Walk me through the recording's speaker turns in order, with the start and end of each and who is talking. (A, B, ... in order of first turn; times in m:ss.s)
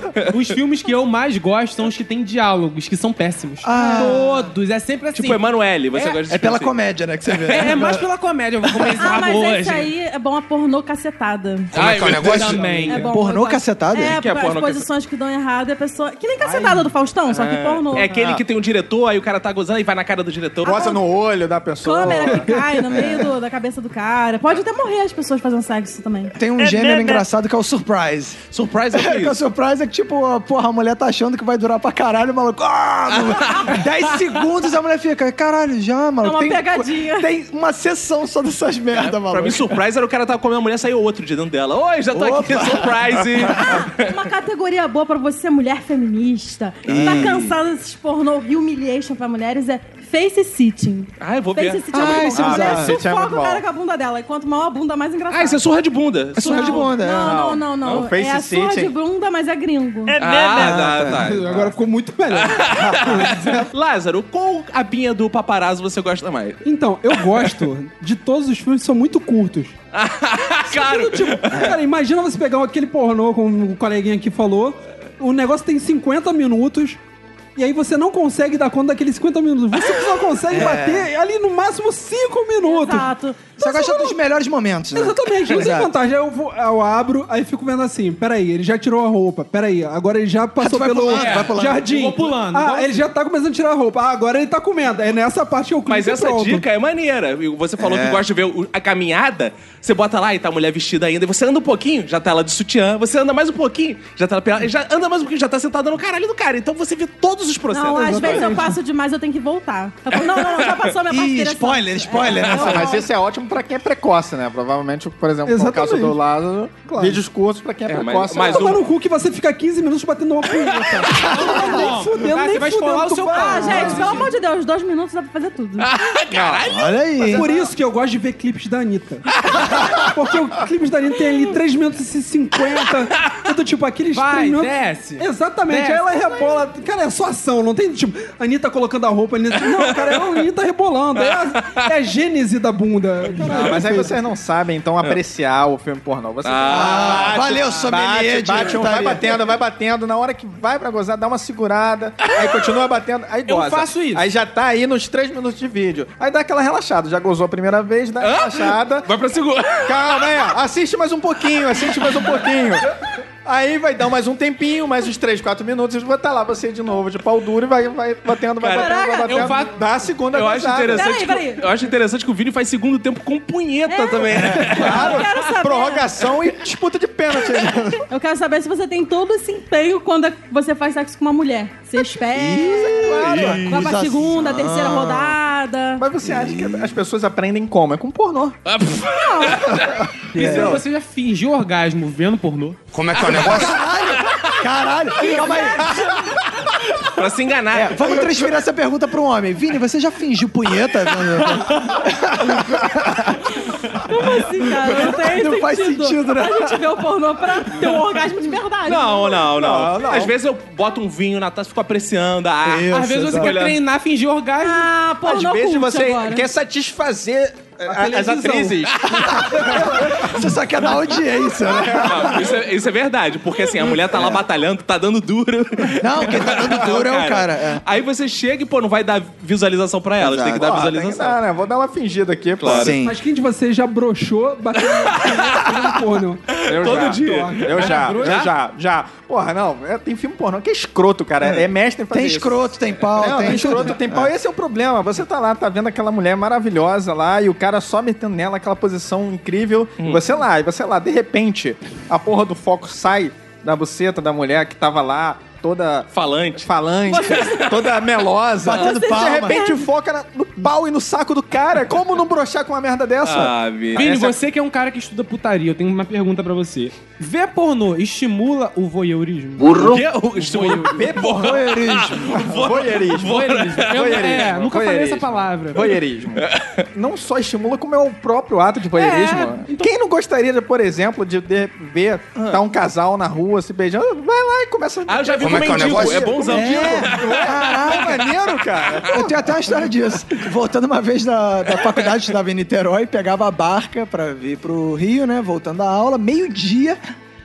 0:00.3-0:05.4 A
0:03.6-0:04.4 B
0:03.8-0:04.1 C
0:05.1-0:08.0 D
0:06.3-0:08.0 B
0:07.5-0:09.9 A
0:08.9-0:11.8 C
0:11.7-0:12.5 E
0:11.7-0:13.1 D
0:12.1-0:13.0 A
0:12.2-0:14.2 B
0:12.8-0:18.2 C
0:14.1-0:14.9 D
0:16.4-0:16.9 F
0:17.3-0:20.9 D
0:18.1-0:18.4 G
0:20.6-0:22.5 G
0:20.6-0:21.0 C
0:21.8-0:26.4 C
0:22.4-0:22.8 F
0:22.9-0:23.3 B
0:26.4-0:28.4 B
0:28.5-0:29.4 D
0:28.9-0:39.8 B
0:33.1-0:33.9 D
0:36.2-0:37.3 C
0:38.9-0:44.3 D
0:42.1-0:43.8 B
0:43.6-0:55.6 C
0:46.9-0:47.5 D
0:46.9-0:47.6 B
0:51.2-0:52.8 D
0:51.9-0:53.0 B
0:52.4-0:53.6 G
0:55.3-0:57.0 D
0:56.4-0:57.4 B
0:56.4-1:00.3 C
0:57.2-0:58.9 G
1:00.2-1:01.8 D
1:00.5-1:01.4 B
1:01.0-1:03.7 F
1:02.3-1:07.6 D
1:06.6-1:09.7 F
1:09.9-1:11.7 D
1:10.7-1:17.0 F
1:17.6-1:23.1 F
1:20.5-1:21.1 B
1:22.6-1:24.2 C
1:23.6-1:25.9 B
1:24.9-1:36.6 F
1:30.6-1:31.9 B
1:31.1-1:33.0 A
1:35.9-1:48.6 D
1:37.8-1:38.2 B
1:47.7-1:53.1 C
1:47.9-1:48.8 F
1:50.1-1:51.0 D
1:51.1-1:53.0 B
1:52.4-1:52.7 D
1:52.5-1:58.8 G
1:55.4-1:56.2 F
1:56.9-1:57.2 F
1:57.9-1:58.8 D
1:58.5-2:04.3 F
2:00.6-2:01.0 D
2:01.3-2:04.3 A
2:01.4-2:01.7 B
2:03.3-2:05.9 C
2:05.8-2:07.1 D
2:06.3-2:07.5 G
2:06.7-2:07.5 B
2:07.3-2:24.2 F
2:14.1-2:16.6 A
2:19.8-2:20.3 D
2:21.2-2:21.9 D
2:23.4-2:39.1 G
2:26.4-2:27.6 D
2:26.7-2:29.3 B
2:33.5-2:34.3 A
2:38.2-2:40.5 D
2:39.9-2:42.9 G
2:43.4-2:51.1 G
2:48.6-2:49.6 D
2:48.7-2:49.5 C
2:49.3-2:49.7 A
2:50.3-2:55.6 D
2:50.9-2:51.7 C
2:53.9-2:56.1 C
2:54.7-2:58.0 G
2:58.1-3:06.1 C
3:02.3-3:05.4 B
3:02.9-3:03.6 G
3:03.2-3:04.0 D
3:06.0-3:08.6 G
3:06.2-3:06.9 B
3:08.7-3:10.0 D
3:09.1-3:09.8 C
3:10.3-3:10.8 G
3:10.3-3:10.8 B
3:10.4-3:12.8 A
3:12.9-3:13.7 E
3:13.2-3:16.1 B
3:13.3-3:13.6 D
3:15.2-3:16.3 C
3:17.0-3:18.5 D
3:17.7-3:23.4 B
3:21.4-3:21.9 D
3:23.7-3:29.5 C
3:24.9-3:26.9 B
3:28.8-3:33.8 D
3:29.5-3:30.4 G
3:32.6-3:33.5 B
3:32.9-3:34.9 A
3:34.6-3:36.5 C
3:35.2-3:40.3 G
3:37.9-3:38.8 F
3:39.2-3:42.5 B
3:41.6-3:42.5 G
3:42.0-3:51.4 D
3:43.9-3:44.4 B
3:46.0-3:47.8 B
3:50.2-3:50.9 B
3:50.6-3:53.0 G
3:52.6-3:53.0 D
3:52.6-3:53.2 B
3:53.0-3:57.8 F
3:54.8-3:55.9 D
3:56.5-3:58.5 D
3:56.6-4:24.4 G
3:57.7-3:58.4 A
4:02.1-4:04.3 B
4:03.5-4:03.9 F
4:16.1-4:18.1 D
4:17.1-4:17.6 C
4:18.6-4:19.6 B
4:18.7-4:19.8 C
4:23.2-4:24.1 D
4:24.0-4:29.9 A
4:29.6-4:34.6 D
4:30.5-4:31.0 A
4:30.5-4:31.6 G
4:31.2-4:32.5 B
4:32.3-4:49.5 G
4:33.2-4:35.9 A
4:36.4-4:36.8 D
4:38.9-4:39.9 A
4:42.4-4:42.6 D
4:45.1-4:48.3 D
4:45.5-4:46.2 E
4:46.4-4:48.2 B
4:49.1-4:57.0 B